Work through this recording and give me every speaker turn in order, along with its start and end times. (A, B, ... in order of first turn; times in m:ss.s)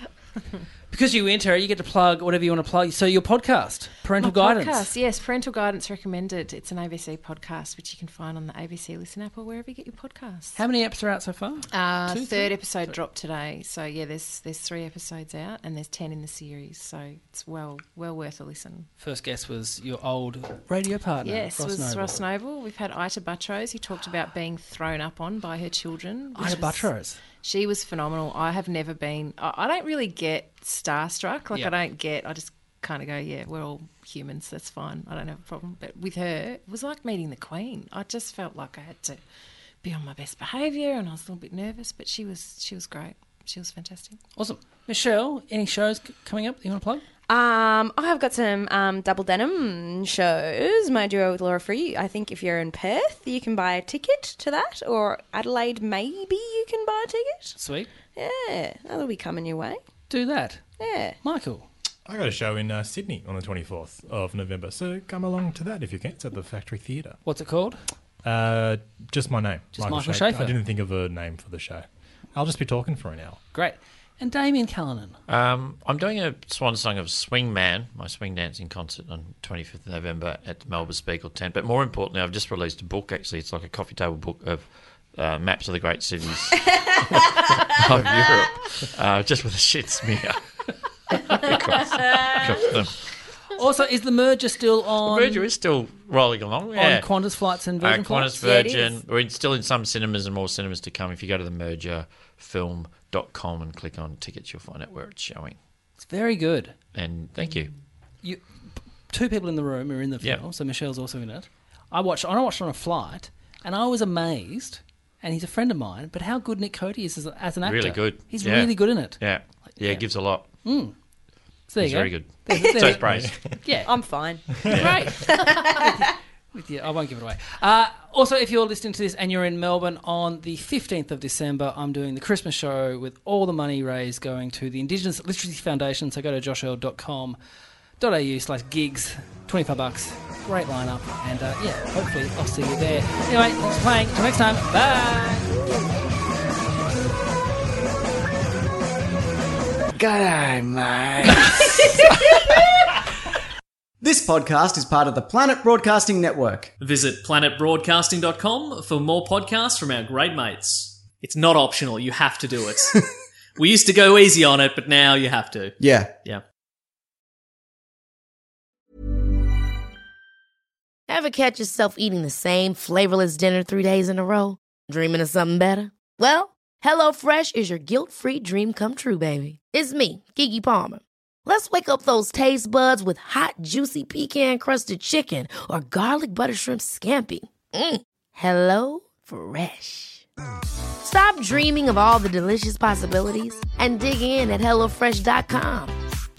0:00.9-0:04.9 A
0:04.2-0:10.6 B
0:10.6-0:12.9 A
0:11.7-0:18.9 B
0:19.0-0:22.2 A
0:21.2-0:39.2 B
0:26.4-0:27.2 A
0:39.8-0:44.2 B
0:44.4-0:47.1 A
0:47.3-0:57.6 C
0:57.6-0:57.9 A
0:58.2-0:59.8 C
1:00.1-1:00.6 A
1:00.8-1:01.2 C
1:01.2-1:01.7 A
1:02.1-1:07.2 D
1:07.2-1:07.8 A
1:08.2-1:13.4 D
1:09.7-1:10.6 A
1:13.5-1:15.2 A
1:15.3-1:30.5 E
1:26.7-1:27.6 C
1:31.1-1:32.9 E
1:32.0-1:32.4 C
1:33.5-1:35.5 A
1:35.0-1:37.1 E
1:36.8-1:38.4 A
1:37.8-1:45.6 E
1:38.4-1:39.0 C
1:46.0-1:46.8 A
1:46.9-1:47.7 E
1:48.2-2:00.0 A
1:57.6-2:00.5 E
2:00.6-2:00.9 A
2:01.7-2:03.9 A
2:01.8-2:03.3 E
2:02.5-2:02.8 C
2:03.1-2:03.6 D
2:03.8-2:06.1 C
2:04.6-2:17.4 A
2:04.7-2:05.0 E
2:18.0-2:25.5 A
2:30.0-2:32.4 F
2:34.0-2:36.7 F
2:36.8-2:42.9 G
2:43.6-2:46.4 G
2:45.8-2:46.2 F
2:51.1-3:10.2 H
3:11.0-3:16.0 H